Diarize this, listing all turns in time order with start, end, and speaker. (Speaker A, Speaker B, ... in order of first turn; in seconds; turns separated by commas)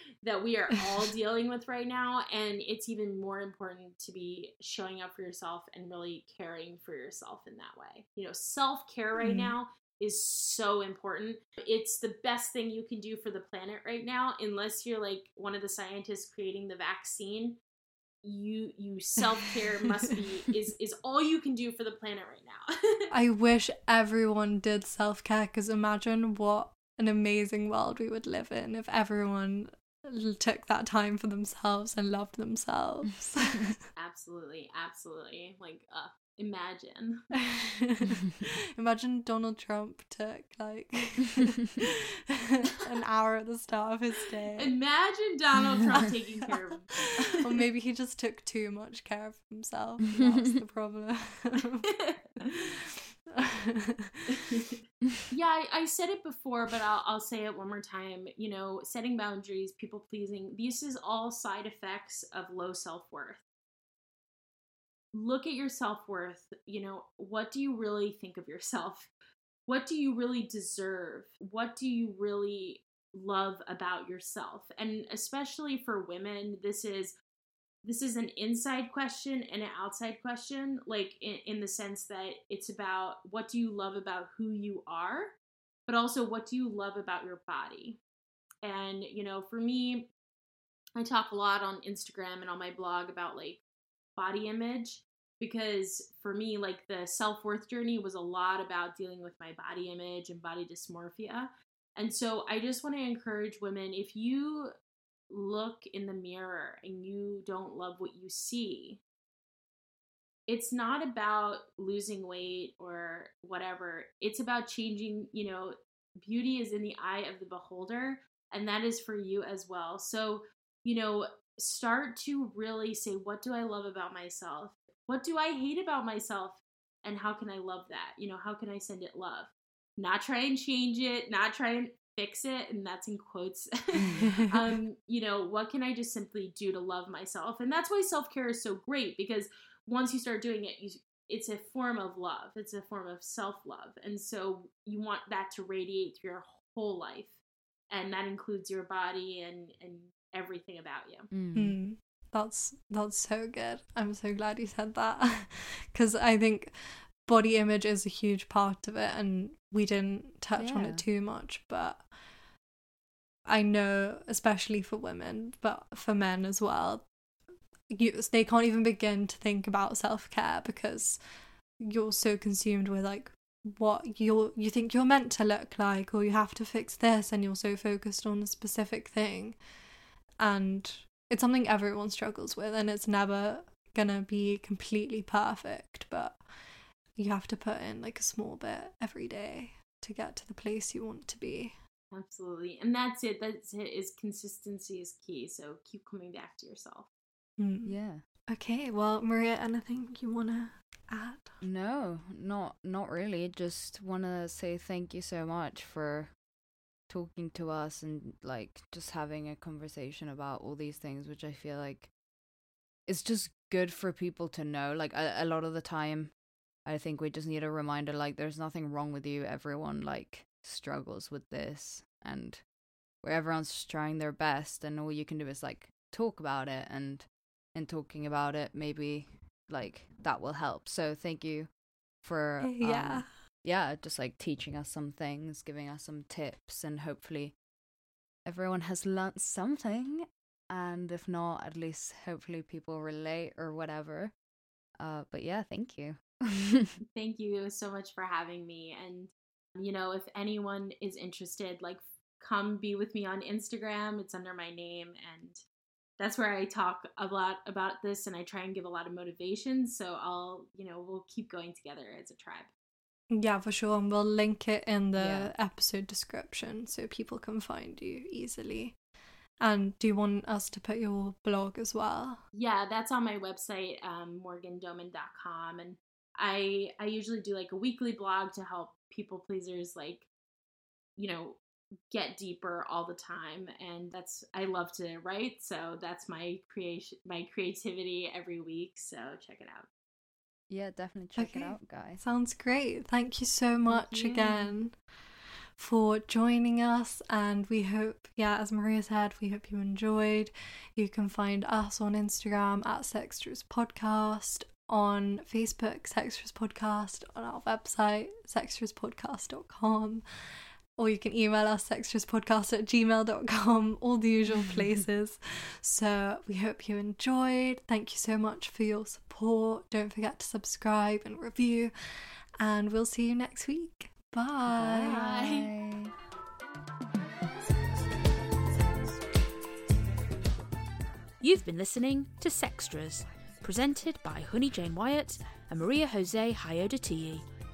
Speaker A: 0.2-17.6, Speaker B: 9.2-9.5, Speaker A: 18.2-22.7, Speaker B: 23.1-33.8, Speaker A: 34.0-37.3, Speaker B: 37.4-41.9, Speaker B: 42.5-44.7, Speaker A: 44.6-47.4, Speaker B: 47.4-51.9, Speaker C: 50.2-50.5, Speaker A: 52.0-52.5, Speaker B: 52.4-52.7, Speaker B: 53.3-54.2, Speaker A: 54.3-54.8, Speaker A: 55.3-63.4, Speaker A: 65.1-69.1, Speaker A: 69.7-77.2, Speaker A: 77.8-85.4, Speaker A: 85.9-88.0, Speaker A: 88.6-90.1, Speaker A: 91.0-93.6, Speaker A: 94.2-104.7, Speaker A: 105.3-109.0, Speaker A: 110.5-147.4, Speaker C: 134.0-134.2, Speaker B: 134.2-134.6, Speaker A: 147.9-151.3, Speaker C: 151.3-151.8, Speaker B: 151.5-162.1, Speaker C: 160.6-161.0, Speaker B: 163.5-167.1, Speaker B: 167.9-171.2, Speaker B: 171.8-179.6, Speaker B: 180.4-186.4, Speaker B: 187.2-191.7, Speaker A: 192.1-197.1, Speaker B: 197.6-198.0, Speaker C: 197.8-198.2, Speaker B: 198.5-201.6, Speaker C: 201.6-206.3, Speaker C: 207.1-212.1, Speaker C: 213.1-216.3, Speaker C: 216.9-222.6, Speaker C: 223.2-231.7, Speaker C: 232.2-237.6, Speaker B: 232.6-233.3, Speaker C: 238.5-244.3, Speaker C: 245.0-247.0, Speaker A: 247.1-255.6, Speaker A: 256.2-262.7, Speaker B: 263.3-269.0, Speaker C: 265.2-265.5, Speaker B: 269.6-272.4, Speaker A: 272.5-280.3, Speaker A: 281.2-281.6, Speaker A: 282.1-289.9, Speaker C: 290.7-292.2, Speaker B: 291.4-295.0, Speaker A: 294.1-294.6, Speaker B: 295.8-310.2, Speaker B: 311.0-325.2, Speaker C: 314.5-314.9, Speaker C: 324.7-326.1, Speaker A: 325.1-325.7, Speaker D: 331.4-337.5